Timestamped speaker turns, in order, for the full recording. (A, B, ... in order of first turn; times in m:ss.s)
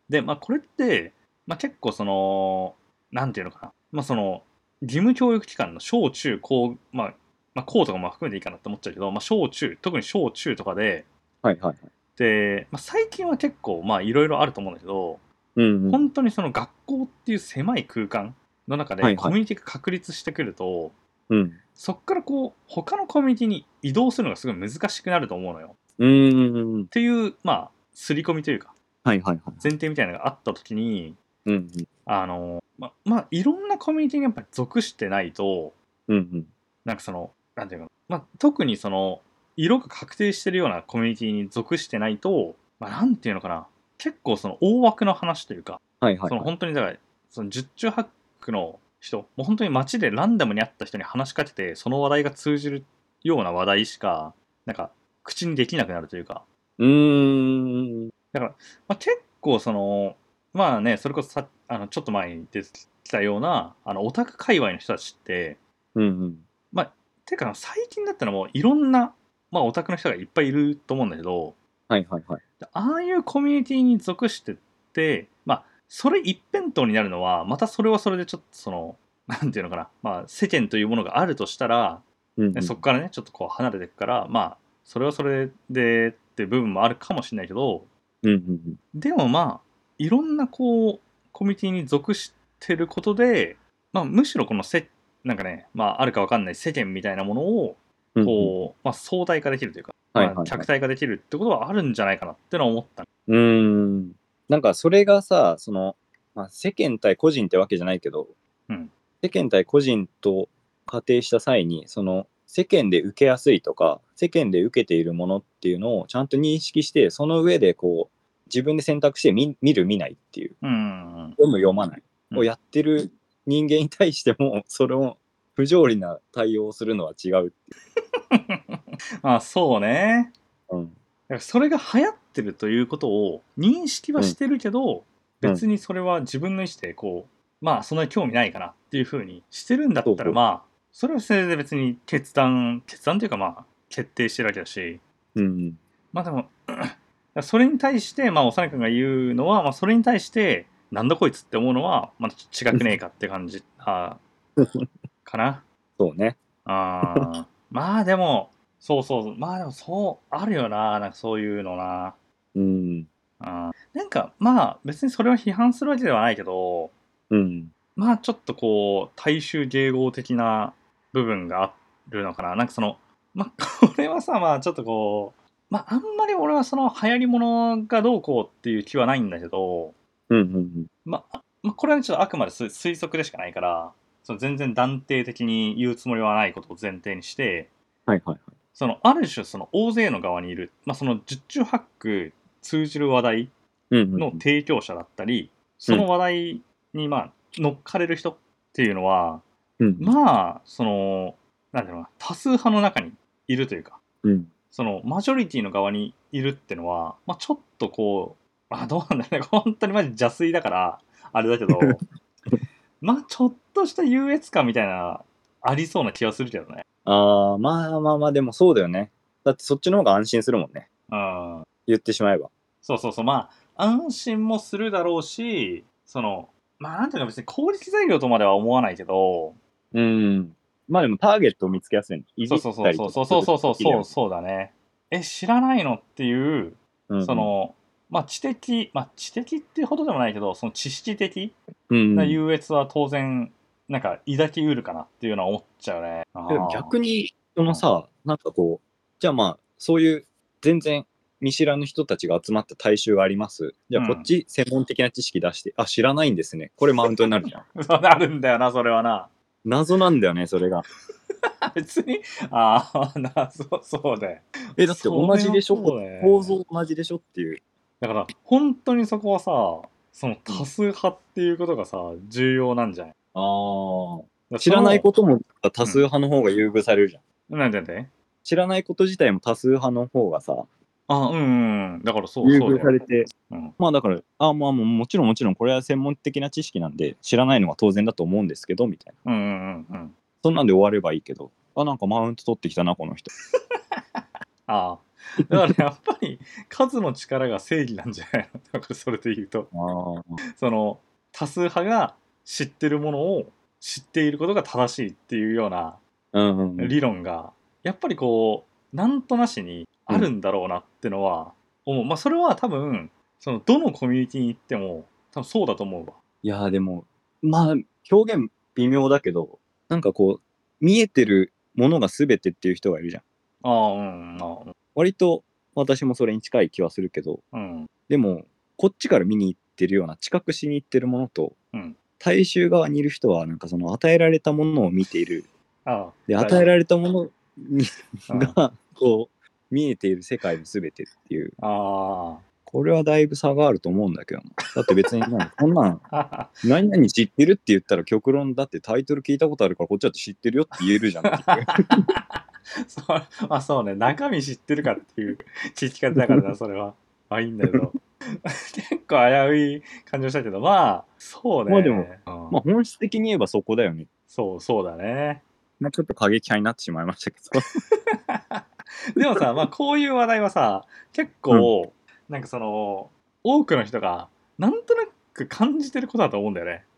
0:00.1-0:11.1 A
0:11.4-0:11.9 B
0:12.2-0:15.2 A
0:15.6-0:16.0 B
0:15.9-0:21.0 A
0:19.0-0:19.4 B
0:21.3-0:21.6 B
0:21.8-0:25.8 A
0:26.0-0:26.9 B
0:26.9-0:28.7 A
0:29.0-0:29.6 B
0:29.6-0:31.2 A
0:31.4-0:31.9 B
0:32.0-0:35.8 A
0:36.1-0:36.5 B
0:36.8-0:56.4 A
0:46.0-0:46.5 B
0:56.8-0:58.1 B
0:58.3-1:05.6 A
1:05.9-1:06.4 B
1:06.7-1:11.6 A
1:11.9-1:12.4 B
1:12.6-1:27.9 A
1:22.4-1:22.8 B
1:28.2-1:28.8 B
1:28.9-1:43.1 A
1:38.2-1:38.5 B
1:40.1-1:40.7 B
1:43.3-1:48.3 B
1:49.2-2:00.5 B
2:00.6-2:01.4 A
2:01.4-2:07.7 B
2:08.3-2:10.3 A
2:10.7-2:11.0 B
2:11.3-2:25.0 A
2:20.0-2:20.4 B
2:25.4-2:25.8 B
2:26.1-2:34.2 A
2:32.7-2:33.0 B
2:34.6-2:34.8 B
2:35.2-2:35.6 A
2:36.0-2:36.4 B
2:36.6-2:42.2 A
2:42.5-2:43.1 B
2:43.4-2:46.9 A
2:47.3-2:47.7 B
2:48.0-2:59.9 A
3:00.3-3:00.9 B
3:01.0-3:07.7 A
3:08.1-3:08.5 B
3:08.7-3:13.5 A
3:13.9-3:14.4 B
3:14.2-3:19.4 A
3:19.8-3:20.1 B
3:20.0-3:24.0 A
3:24.2-3:24.5 B
3:24.7-3:32.0 A
3:33.0-3:36.8 A
3:37.0-3:40.9 B
3:41.1-3:41.7 A
3:41.9-3:42.5 B
3:42.8-3:49.6 A
3:49.9-3:54.1 B
3:52.5-4:01.6 A
3:57.1-3:57.5 B
4:01.9-4:02.4 B
4:02.1-4:06.9 A
4:06.5-4:17.6 B
4:13.9-4:14.3 A
4:17.0-4:19.3 A
4:19.6-4:20.8 B
4:21.7-4:26.5 A
4:24.8-4:27.6 B
4:28.0-4:33.1 A
4:33.3-4:37.2 B
4:34.5-4:35.1 A
4:37.5-4:38.1 A
4:38.4-4:40.7 B
4:41.1-4:43.7 A
4:42.4-4:49.2 B
4:49.2-4:50.1 A
4:50.4-4:53.3 B
4:54.7-4:59.7 A
4:59.7-5:00.4 B
5:00.5-5:06.0 A
5:06.3-5:07.0 B
5:06.8-5:16.2 A
5:16.4-5:23.2 B
5:23.6-5:24.7 A
5:25.0-5:27.4 B
5:27.5-5:27.9 A
5:28.1-5:31.6 B
5:32.2-5:35.5 B
5:35.8-5:36.7 A
5:36.3-5:41.6 B
5:38.3-5:38.6 A
5:41.6-5:42.4 A
5:42.7-5:46.0 B
5:46.1-5:46.7 A
5:46.6-5:51.8 B
5:50.8-6:02.6 A
5:56.1-5:56.5 B
6:01.7-6:04.1 B
6:04.3-6:05.4 A
6:05.8-6:07.6 B
6:07.6-6:16.8 A
6:09.2-6:09.4 B